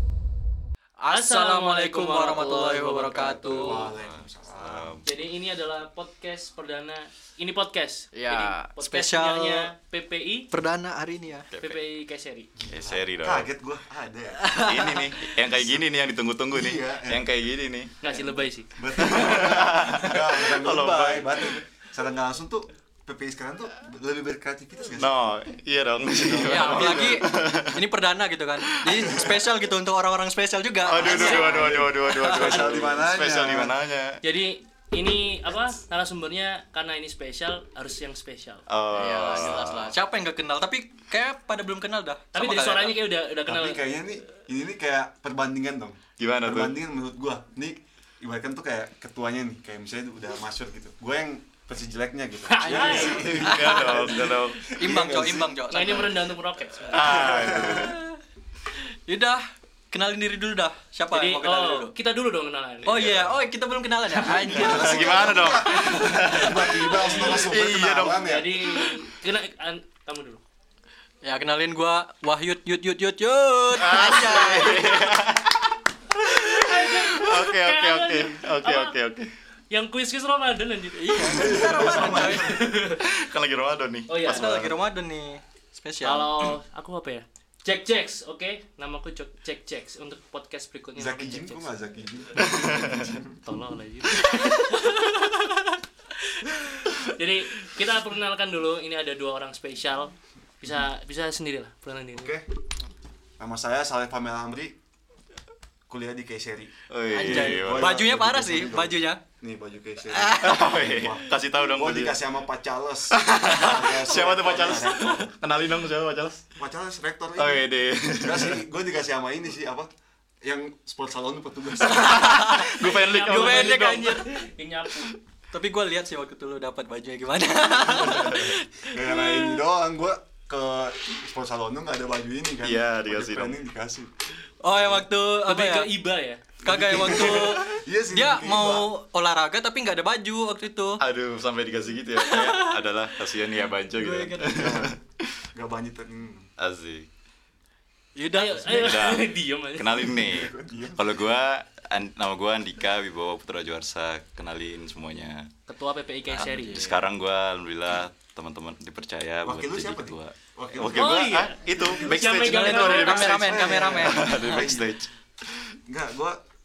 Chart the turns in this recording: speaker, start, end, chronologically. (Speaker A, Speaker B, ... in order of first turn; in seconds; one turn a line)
Speaker A: 1.0-3.9
Speaker B: 1.1-3.9
Speaker C: 3.1-5.0
Speaker D: 3.7-5.1
Speaker B: 5.0-10.5
Speaker A: 8.1-9.7
Speaker A: 10.5-11.5
Speaker D: 11.5-11.8
Speaker B: 11.6-12.5
Speaker C: 12.6-14.6
Speaker D: 12.7-13.5
Speaker A: 14.4-15.3
Speaker D: 14.5-17.9
Speaker C: 15.5-15.8
Speaker C: 16.5-17.2
Speaker B: 18.0-18.7
Speaker C: 18.8-25.2
Speaker D: 18.9-21.6
Speaker D: 25.0-27.8
Speaker C: 26.2-27.2
Speaker A: 26.4-33.0
Speaker D: 28.8-29.5
Speaker D: 30.9-34.2
Speaker C: 31.0-33.7
Speaker B: 31.0-31.6
Speaker B: 34.2-38.6
Speaker D: 38.7-40.0
Speaker A: 38.9-43.0
Speaker B: 42.3-43.8
Speaker C: 43.5-55.6
Speaker D: 46.2-46.8
Speaker B: 52.5-53.4
Speaker A: 52.6-56.3
Speaker D: 52.9-54.6
Speaker B: 55.7-57.1
Speaker D: 56.9-58.0
Speaker C: 57.0-57.9
Speaker A: 57.2-58.2
Speaker A: 58.8-61.9
Speaker B: 61.1-63.0
Speaker A: 62.9-66.3
Speaker D: 62.9-63.4
Speaker D: 64.3-69.0
Speaker C: 64.3-68.6
Speaker B: 68.2-70.4
Speaker A: 71.2-75.1
Speaker D: 73.7-79.3
Speaker B: 76.4-79.0
Speaker B: 79.7-81.6
Speaker A: 81.0-82.6
Speaker C: 81.2-82.6
Speaker D: 82.0-84.8
Speaker B: 82.2-83.0
Speaker B: 84.1-84.5
Speaker A: 84.2-86.6
Speaker B: 86.0-91.7
Speaker C: 91.0-93.4
Speaker D: 92.4-93.1
Speaker B: 93.5-95.4
Speaker B: 96.3-102.3
Speaker C: 102.1-102.5
Speaker C: 103.4-104.8
Speaker C: 105.9-115.3
Speaker D: 106.9-108.0
Speaker A: 107.1-109.2
Speaker A: 110.1-110.6
Speaker D: 110.2-112.3
Speaker D: 113.1-116.4
Speaker C: 116.6-119.9
Speaker D: 117.4-118.6
Speaker C: 120.4-122.5
Speaker A: 121.8-124.4
Speaker D: 121.9-124.3
Speaker B: 122.8-125.2
Speaker A: 125.5-129.6
Speaker C: 127.7-134.1
Speaker D: 128.0-128.5
Speaker D: 132.6-133.6
Speaker A: 134.6-135.9
Speaker C: 134.7-135.1
Speaker B: 135.5-136.4
Speaker C: 136.6-138.9
Speaker A: 136.6-141.0
Speaker D: 141.0-144.9
Speaker A: 142.2-144.8
Speaker C: 144.5-145.0
Speaker C: 145.5-146.5
Speaker D: 146.6-147.1
Speaker A: 148.2-149.1
Speaker B: 148.3-150.1
Speaker D: 148.7-155.5
Speaker C: 149.9-151.1
Speaker B: 155.7-156.8
Speaker A: 156.3-157.1
Speaker D: 156.4-165.7
Speaker C: 159.4-161.9
Speaker B: 160.9-163.4
Speaker A: 162.2-164.7
Speaker C: 163.1-165.0
Speaker C: 165.9-166.4